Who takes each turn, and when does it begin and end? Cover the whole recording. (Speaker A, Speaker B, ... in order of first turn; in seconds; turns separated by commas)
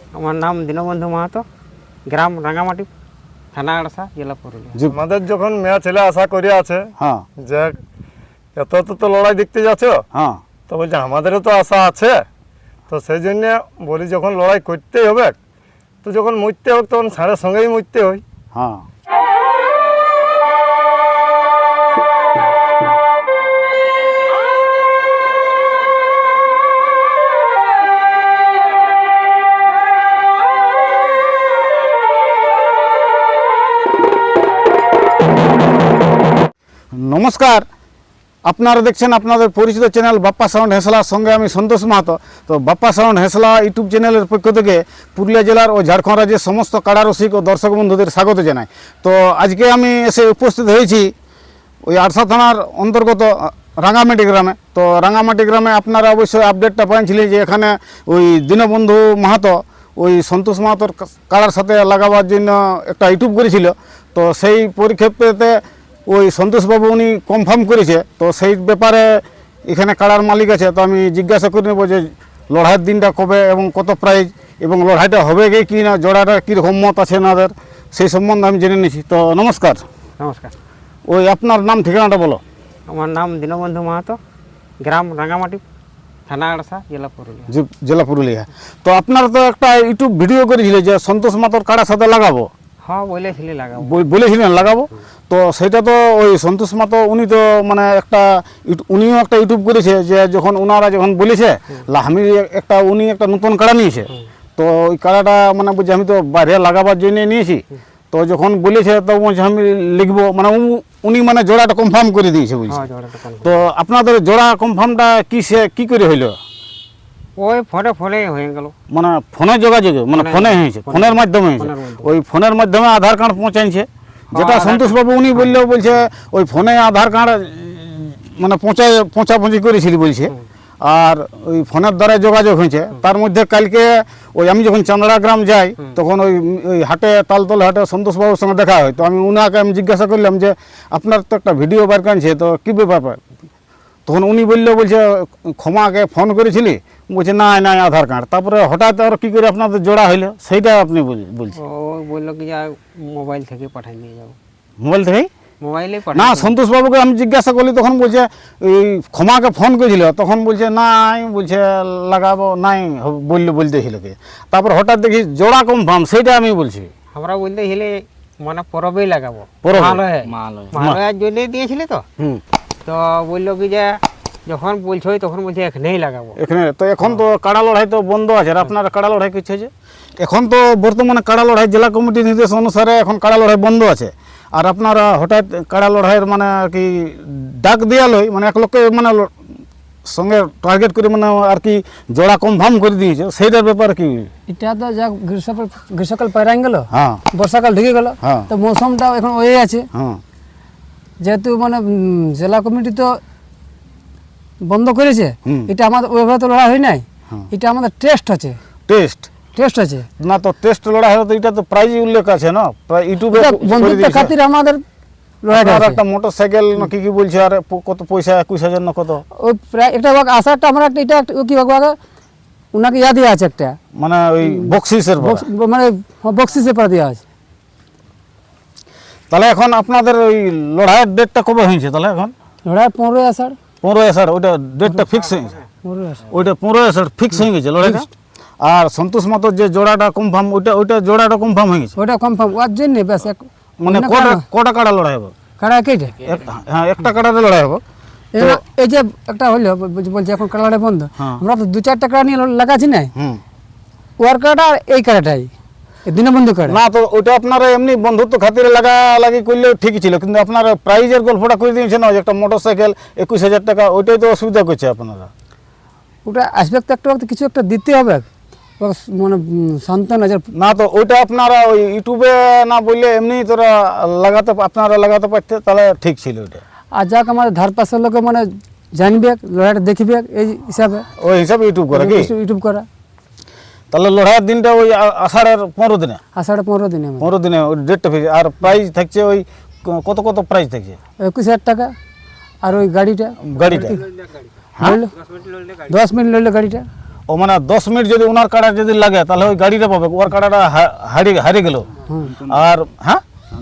Speaker A: 0.1-1.4, Speaker A: 2.1-2.9, Speaker A: 3.5-4.8, Speaker B: 4.9-7.8, Speaker C: 7.0-7.2, Speaker B: 8.5-10.0, Speaker C: 10.1-10.4, Speaker B: 10.7-12.2, Speaker B: 12.9-15.3, Speaker B: 16.0-18.2, Speaker C: 18.5-18.8, Speaker C: 36.9-37.6, Speaker C: 38.4-51.1, Speaker C: 51.9-79.8, Speaker A: 80.2-80.5, Speaker C: 81.1-82.4, Speaker A: 82.9-84.2, Speaker A: 84.8-85.6, Speaker A: 86.3-87.5, Speaker C: 87.5-92.5, Speaker A: 92.8-94.0, Speaker C: 93.8-112.8, Speaker A: 112.7-113.6, Speaker C: 113.4-116.4, Speaker A: 117.4-118.7, Speaker C: 118.9-143.2, Speaker A: 120.1-122.1, Speaker A: 124.3-125.5, Speaker C: 144.1-151.6, Speaker A: 151.5-154.3, Speaker C: 154.8-155.3, Speaker A: 155.6-156.6, Speaker C: 156.1-166.9, Speaker A: 167.1-172.1, Speaker C: 169.6-170.0, Speaker A: 172.8-176.4, Speaker C: 176.4-189.3, Speaker C: 190.1-194.3, Speaker D: 194.5-199.9, Speaker C: 196.9-197.2, Speaker C: 198.2-198.5, Speaker C: 199.9-200.2, Speaker D: 201.2-203.2, Speaker D: 204.6-208.6, Speaker C: 205.4-205.7, Speaker C: 208.9-209.3, Speaker D: 209.5-210.1, Speaker C: 210.2-214.3, Speaker D: 213.3-214.8, Speaker D: 215.4-216.0, Speaker C: 215.5-219.2, Speaker D: 219.4-222.0, Speaker D: 222.7-223.8, Speaker C: 223.9-225.4, Speaker D: 224.6-227.2, Speaker C: 229.3-232.3, Speaker D: 232.6-233.6, Speaker C: 233.8-235.6, Speaker A: 235.1-235.7, Speaker D: 235.8-236.2, Speaker C: 236.2-238.1, Speaker C: 238.6-241.9, Speaker D: 241.9-244.4, Speaker C: 243.8-245.3, Speaker D: 245.6-246.2, Speaker C: 246.2-247.8, Speaker D: 248.3-253.1, Speaker C: 253.2-253.4, Speaker D: 254.2-255.5, Speaker D: 256.1-256.8, Speaker C: 256.6-265.3, Speaker D: 266.2-268.3, Speaker D: 268.8-270.5, Speaker C: 270.5-276.6, Speaker D: 276.9-281.1, Speaker C: 281.2-282.3, Speaker D: 281.9-282.9, Speaker C: 283.9-286.2, Speaker D: 286.4-287.3, Speaker C: 287.2-291.0, Speaker D: 291.2-291.9, Speaker D: 292.6-293.4, Speaker C: 293.4-294.0, Speaker A: 293.8-294.4, Speaker D: 294.8-295.1, Speaker A: 295.3-295.8, Speaker D: 295.9-296.9, Speaker C: 297.3-303.2